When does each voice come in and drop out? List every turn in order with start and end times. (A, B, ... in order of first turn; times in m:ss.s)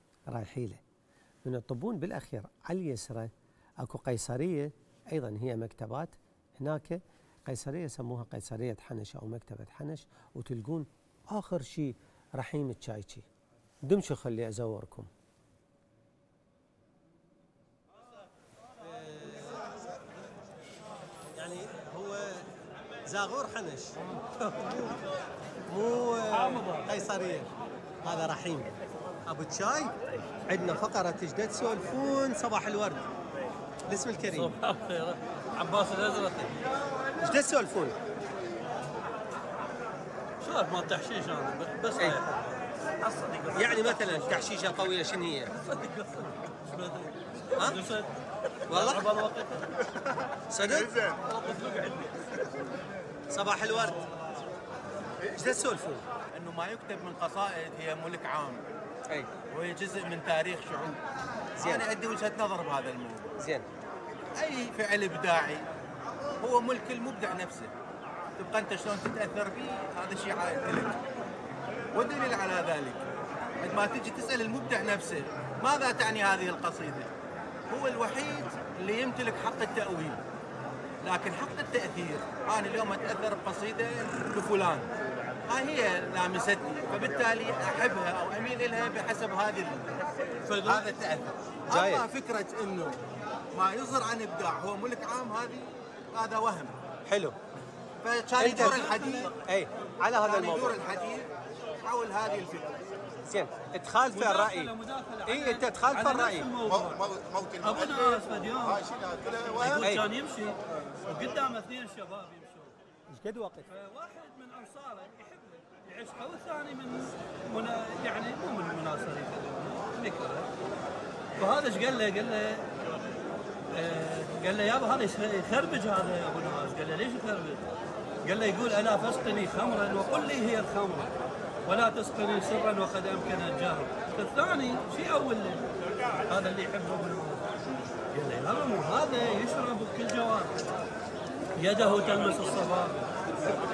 0:00.3-0:00.8 A
0:01.5-0:03.3 A
0:03.8-0:13.3 A
0:13.9-0:15.1 A
0:18.8-0:19.8 A
0:21.3-0:22.5 A
0:23.1-0:25.0 A
0:25.7-0:27.5 A
0:26.4-0:26.9 B
0:28.0-0:28.7 A
0:29.3-0:29.9 A
0:30.5-0:33.1 A
0:33.9-0:34.6 A
0:34.2-0:36.6 B
0:37.2-0:38.0 A
0:40.4-0:44.5 B
0:43.5-0:45.5 A
0:45.6-0:48.1 B
0:48.7-0:49.0 A
0:48.7-0:49.8 B
0:50.5-0:51.0 A
0:50.6-0:51.2 C
0:51.3-0:52.6 B
0:53.3-0:54.0 A
0:55.3-0:56.0 A
0:56.3-0:58.7 D
0:59.5-1:01.0 D
1:01.6-1:01.8 A
1:01.6-1:03.4 D
1:03.4-1:03.7 A
1:04.4-1:05.7 D
1:06.4-1:07.7 D
1:08.4-1:11.0 D
1:11.9-1:13.1 D
1:13.6-1:17.1 D
1:17.7-1:20.2 D
1:21.0-1:24.9 D
1:25.5-1:30.0 D
1:30.5-1:30.9 B
1:30.9-1:33.0 D
1:31.7-1:32.0 A
1:33.6-1:36.8 D
1:37.1-1:37.4 A
1:38.0-1:39.3 D
1:38.4-1:40.8 A
1:38.4-1:39.3 B
1:40.2-1:42.8 D
1:43.3-1:44.7 A
1:44.1-1:47.0 B
1:45.3-1:46.5 A
1:46.6-1:50.0 C
1:47.6-1:48.9 B
1:49.4-1:52.8 B
1:49.7-1:50.0 A
1:53.1-1:53.7 A
1:53.7-2:00.5 B
2:01.4-2:02.7 B
2:03.7-2:07.6 B
2:08.2-2:11.1 B
2:11.6-2:15.7 B
2:16.3-2:17.5 B
2:18.1-2:20.7 B
2:21.6-2:23.1 B